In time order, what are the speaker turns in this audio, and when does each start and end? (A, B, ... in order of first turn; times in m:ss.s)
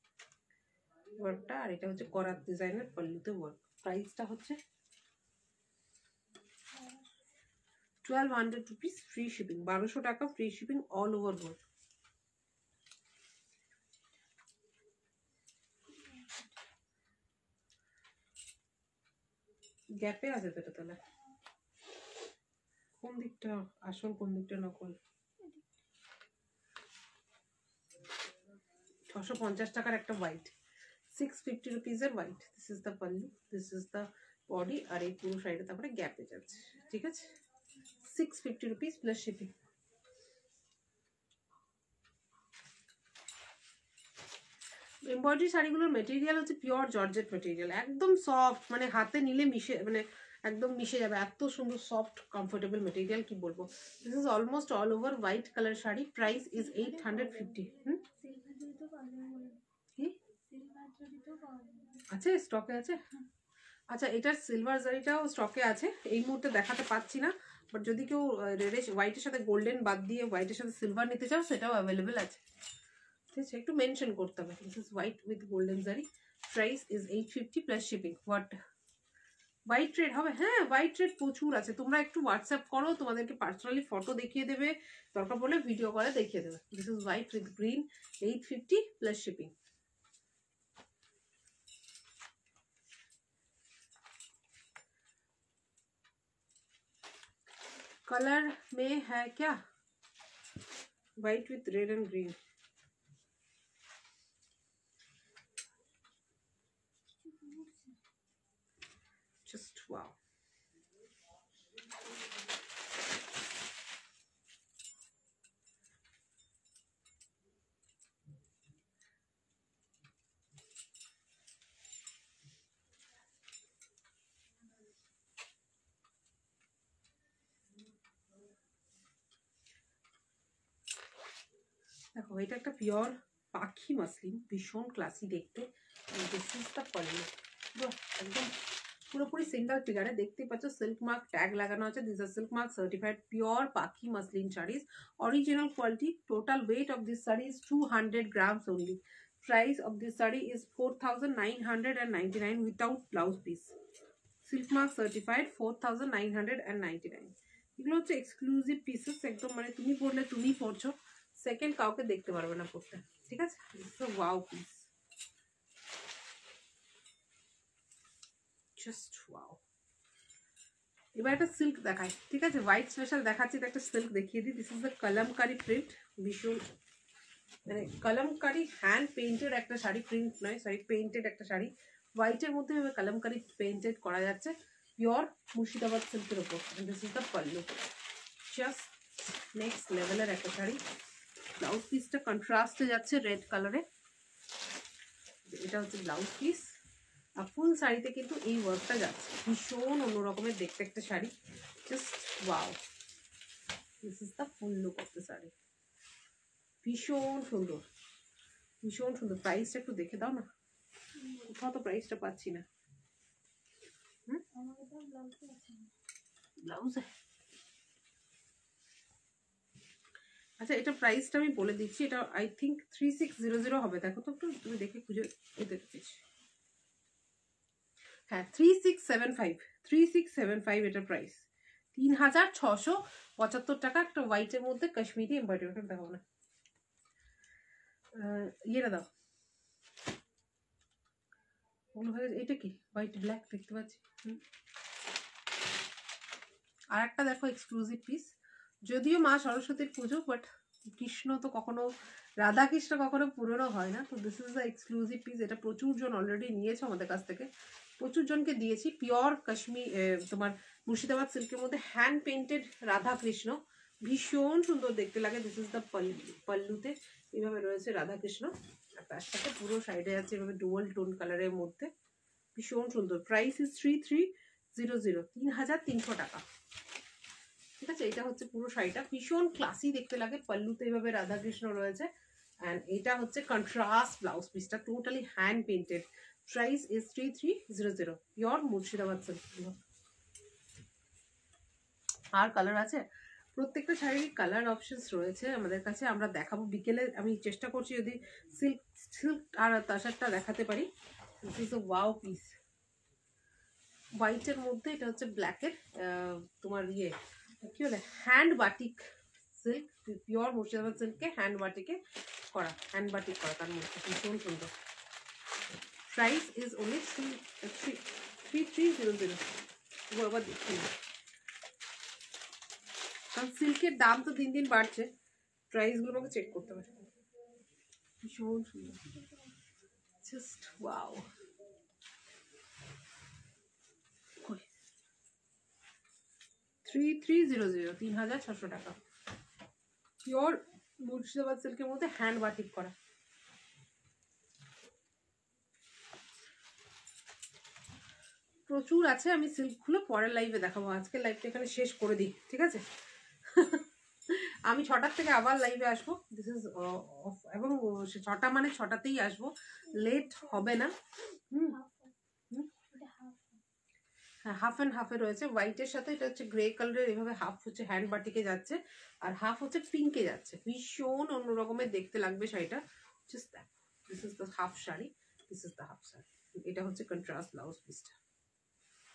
0:01.2-0:04.6 A
0:06.7-0:07.1 B
0:08.0-0:11.6 A
0:15.9-0:16.5 B
0:19.9-0:21.0 A
0:23.0-0:25.0 A
0:25.4-0:25.7 B
0:29.1-0:30.5 A
0:31.1-0:37.3 A
0:38.0-0:39.5 A
0:45.1-0:58.0 A
0:56.6-0:59.6 B
1:00.5-1:02.1 B
1:02.1-1:03.0 A
1:03.9-1:12.4 A
1:13.3-1:18.6 A
1:19.7-1:29.5 A
1:38.1-1:39.6 A
1:41.2-1:42.4 A
1:47.2-1:48.0 B
1:49.4-1:50.2 A
2:12.2-2:18.5 A
2:19.1-2:33.8 A
2:34.4-2:44.9 A
2:48.8-2:49.6 A
2:51.2-2:56.6 A
2:57.7-3:07.7 A
3:08.5-3:09.0 A
3:09.5-3:10.8 A
3:11.6-3:13.8 A
3:15.5-3:16.8 A
3:17.4-3:21.3 A
3:21.9-3:22.8 A
3:24.0-3:25.5 A
3:26.8-3:27.9 A
3:28.8-3:30.5 A
3:31.2-3:31.5 B
3:31.5-3:32.7 A
3:34.5-3:35.9 B
3:36.6-3:37.1 A
3:40.6-3:46.2 A
3:48.3-3:56.2 A
3:58.1-3:59.1 A
4:02.0-4:04.4 A
4:06.9-4:08.3 A
4:08.9-4:31.9 A
4:32.6-4:36.4 A
4:37.8-4:42.1 A
4:42.6-4:49.8 A
4:52.3-4:53.0 A
4:53.6-5:00.9 A
5:01.4-5:02.6 A
5:04.2-5:12.0 A
5:12.5-5:14.7 A
5:16.1-5:19.5 A
5:20.1-5:20.9 A
5:23.3-5:25.1 A
5:25.7-5:26.9 A
5:28.2-5:29.0 A
5:29.0-5:29.5 B
5:30.2-5:31.3 A
5:36.8-5:39.0 A
5:40.2-5:43.0 A
5:48.7-5:52.8 A
5:53.5-6:01.0 A
5:59.9-6:00.8 B
6:01.7-6:02.2 B
6:02.7-6:03.6 B
6:04.4-6:18.2 A